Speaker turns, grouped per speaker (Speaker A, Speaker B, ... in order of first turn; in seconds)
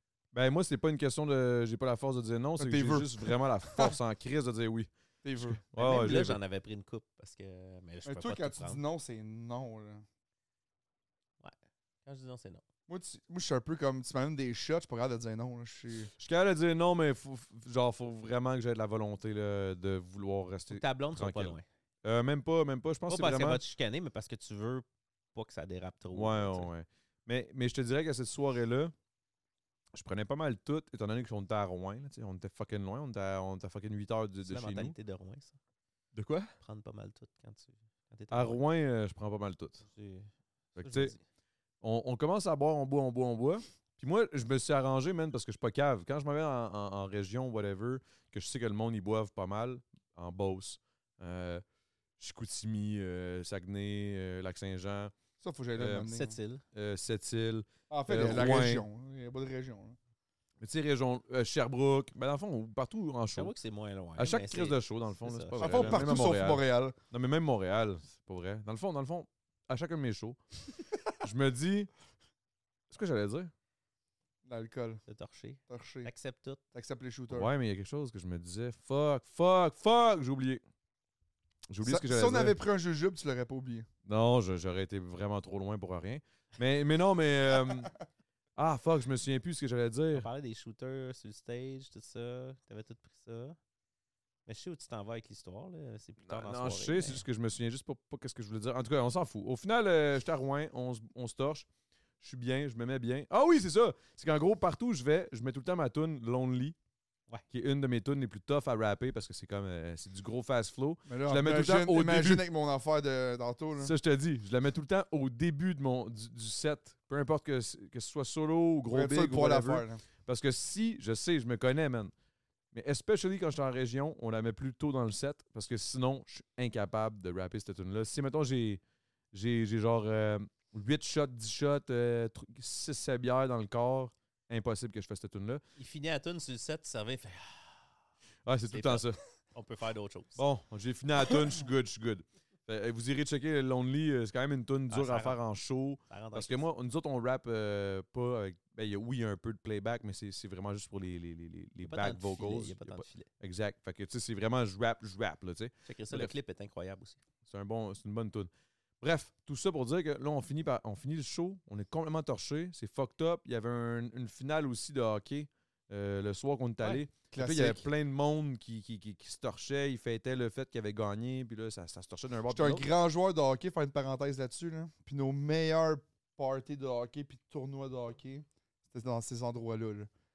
Speaker A: 0.3-6.4, 16.2-23.6, 26.1-28.9, 29.9-35.0, 36.1-36.5, 38.3-39.8, 40.8-41.1, 41.8-51.6, 52.2-55.1, 55.8-56.1, 56.7-58.9, 60.6-63.5, 64.2-70.4, 71.2-71.9, 72.9-73.5, 77.3-80.6, 81.7-82.6, 84.1-87.9, 88.6-90.3, 96.2-101.7, 102.2-106.8, 107.5-112.5, 113.8-122.1, 122.7-135.6, 138.4-139.2, 140.4-156.3, 157.5-172.9
Speaker B: 2.6-4.0, 5.2-6.2, 8.1-10.1, 12.9-16.1, 55.4-56.4, 57.9-60.0, 65.6-67.0, 74.5-75.0, 75.7-76.1, 76.7-77.5, 81.8-83.9, 111.1-113.9, 118.9-120.0, 167.1-167.8, 172.5-180.1
Speaker C: 5.8-8.8, 11.4-12.6, 20.7-21.7, 23.1-26.7, 34.5-35.6, 36.6-38.6, 39.8-41.2, 56.1-56.6, 63.4-66.0, 75.1-76.6, 90.1-93.6, 94.5-97.2, 135.8-137.8, 138.7-140.4, 144.9-145.4, 146.1-146.7, 151.8-153.3, 155.9-157.2